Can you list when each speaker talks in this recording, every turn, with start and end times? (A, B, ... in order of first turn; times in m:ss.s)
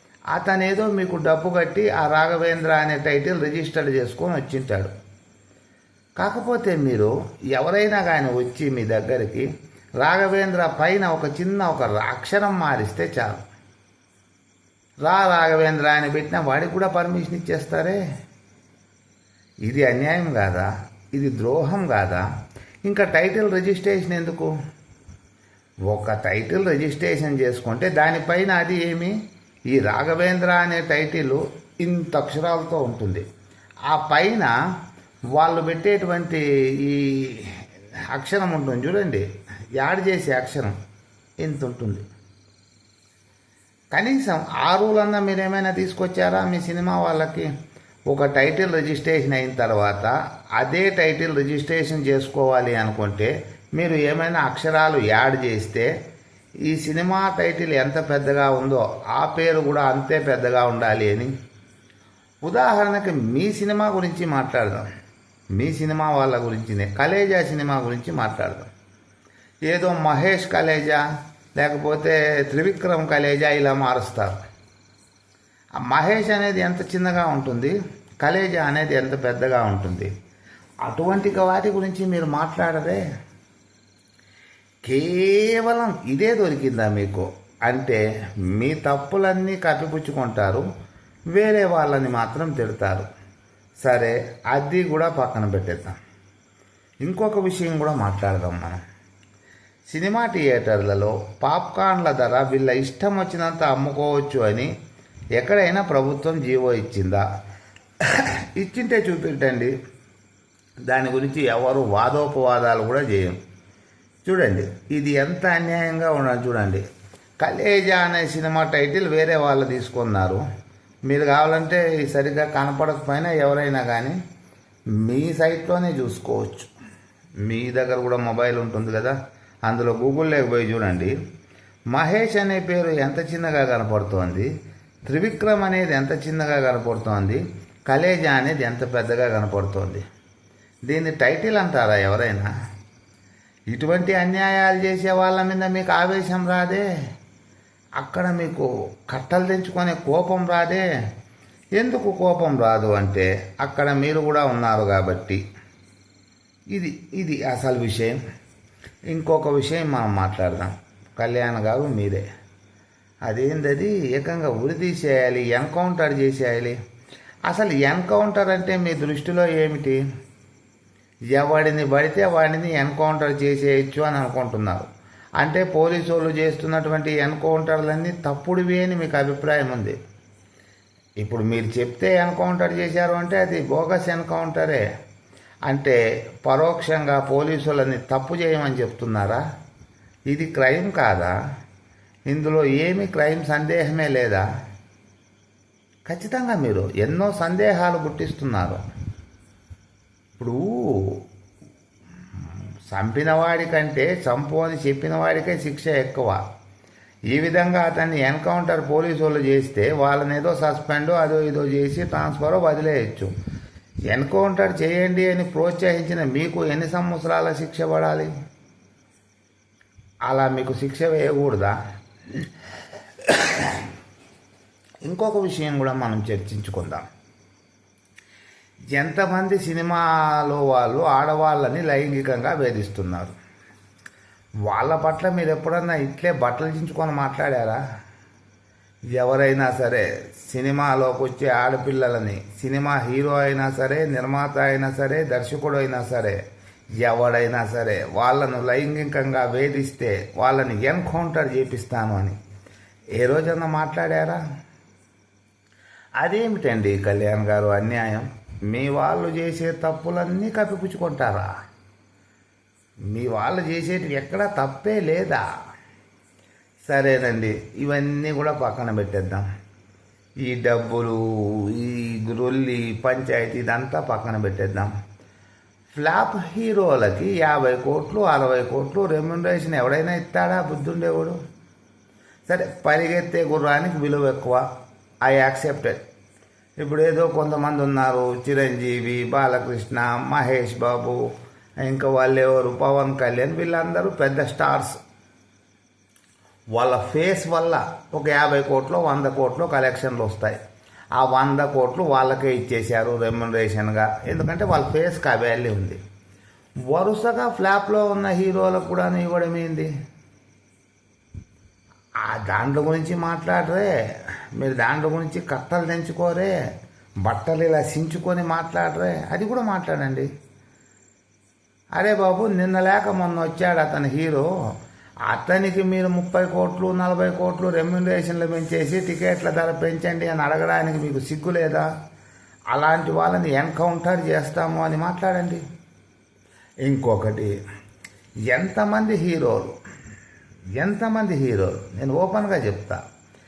0:00.3-0:04.9 A
0:06.2-0:09.5 A
0:10.0-0:13.4 A
0:15.0-0:18.0 A
0:19.7-0:22.2 A
0:22.9-0:24.5 A
0:25.9-0:29.1 A
0:29.7-0:33.2 A
0:33.9-0:34.5 A
0:35.3-0:39.3 A
0:39.8-0:40.8 A
0:41.4-0:42.0 A
0:43.9-0:47.5 A
0:48.1-0:55.9 A
0:56.7-1:01.3 A
1:02.4-1:04.9 A
1:05.6-1:08.7 A
1:09.7-1:11.0 A
1:11.6-1:14.4 A
1:15.9-1:20.1 A
1:20.8-1:23.0 A
1:24.9-1:28.0 A
1:28.5-1:30.6 A
1:31.3-1:33.1 A
1:33.8-1:36.0 A
1:37.0-1:38.8 A
1:39.9-1:44.7 A
1:45.4-1:47.2 A
1:48.0-1:49.7 A
1:50.9-1:53.4 A
1:54.2-1:56.8 A
1:57.4-2:00.4 A
2:01.1-2:04.2 A
2:05.0-2:06.7 A
2:07.5-2:09.2 A
2:09.7-2:11.1 A
2:11.9-2:14.5 A
2:15.1-2:20.0 A
2:20.9-2:22.5 A
2:23.7-2:26.8 A
2:28.0-2:30.9 A
2:31.8-2:35.4 A
2:36.7-2:38.2 A
2:39.1-2:42.2 A
2:43.3-2:46.8 A
2:47.5-2:50.0 A
2:51.3-2:54.9 A
2:55.4-3:00.0 A
3:01.2-3:04.8 A
3:05.7-3:09.4 A
3:10.3-3:11.3 A
3:12.3-3:14.4 A
3:16.1-3:18.8 A
3:20.4-3:21.2 A
3:22.4-3:26.4 A
3:27.3-3:33.3 A
3:34.1-3:38.3 A
3:40.3-3:41.8 A
3:43.2-3:43.9 A
3:45.1-3:47.0 A
3:48.9-3:53.4 A
3:54.7-3:57.8 A
3:59.2-4:06.4 A
4:07.0-4:12.4 A
4:13.2-4:14.4 A
4:16.2-4:21.5 A
4:23.1-4:25.4 A
4:26.9-4:29.4 A
4:30.4-4:34.9 A
4:35.9-4:41.4 A
4:42.5-4:44.6 A
4:45.2-4:46.0 A
4:46.8-4:51.2 A
4:51.8-4:55.0 A
4:56.8-5:00.6 A
5:01.2-5:06.0 A
5:06.9-5:09.9 A
5:12.2-5:14.0 A
5:14.6-5:16.6 A
5:17.2-5:20.3 A
5:22.0-5:24.5 A
5:25.3-5:31.9 A
5:32.7-5:35.6 A
5:36.8-5:37.5 A
5:38.5-5:39.7 A
5:40.8-5:43.0 A